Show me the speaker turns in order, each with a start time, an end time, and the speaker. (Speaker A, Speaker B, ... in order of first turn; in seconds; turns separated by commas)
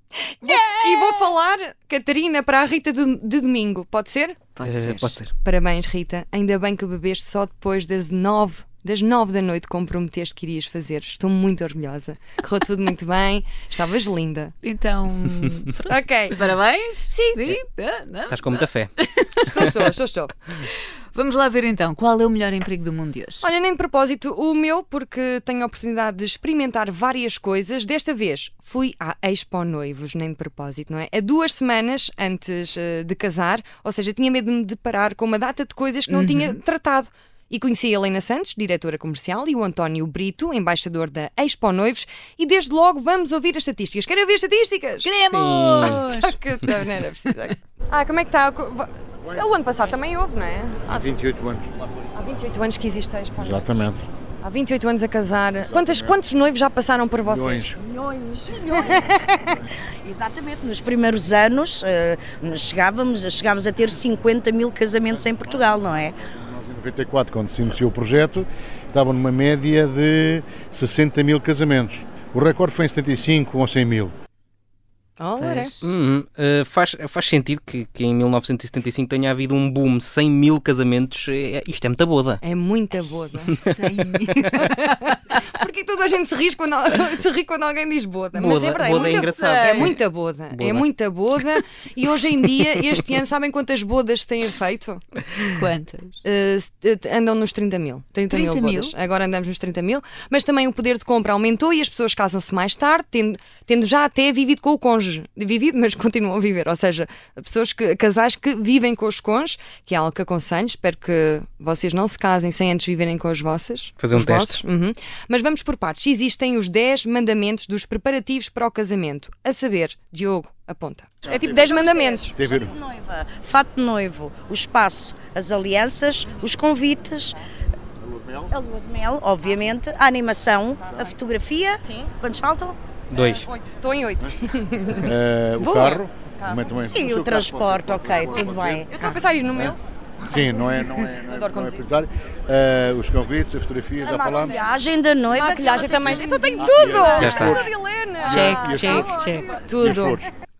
Speaker A: 0.4-4.4, Speaker B: 0.4-1.3, Speaker B: 4.5-5.2, Speaker C: 4.6-5.3, Speaker A: 5.3-14.5, Speaker B: 14.6-19.8, Speaker A: 15.8-16.4, Speaker A: 17.1-17.4, Speaker C: 18.3-18.9, Speaker A: 19.4-20.3, Speaker B: 20.6-23.4, Speaker A: 23.4-45.1, Speaker B: 36.1-36.6, Speaker B: 45.0-46.3, Speaker C: 45.3-46.0, Speaker A: 45.8-51.2, Speaker D: 50.9-51.7, Speaker A: 52.1-53.9, Speaker D: 53.4-54.0, Speaker A: 54.4-57.8, Speaker D: 55.6-56.2, Speaker D: 57.2-57.8, Speaker E: 57.8-59.5, Speaker E: 60.0-66.2, Speaker D: 65.1-65.6, Speaker D: 66.3-74.1, Speaker A: 75.2-75.7, Speaker B: 75.4-75.9, Speaker C: 75.8-82.4, Speaker A: 82.4-83.7, Speaker B: 83.5-85.4, Speaker A: 84.3-95.0, Speaker C: 88.3-90.9, Speaker B: 88.8-90.0, Speaker B: 95.5-96.2, Speaker A: 96.2-122.4, Speaker B: 98.3-98.9, Speaker C: 114.0-114.6, Speaker D: 121.2-121.6, Speaker E: 121.6-127.3, Speaker D: 122.3-122.8, Speaker E: 128.5-132.8, Speaker A: 131.7-132.1, Speaker C: 133.1-133.5, Speaker A: 133.2-136.9, Speaker D: 135.0-138.8, Speaker E: 136.8-139.1, Speaker A: 138.4-139.8, Speaker D: 140.3-144.6, Speaker A: 140.3-141.9, Speaker E: 144.0-146.3, Speaker A: 145.3-150.2, Speaker D: 146.0-147.7, Speaker C: 147.1-147.7, Speaker D: 148.2-150.2, Speaker B: 148.2-149.5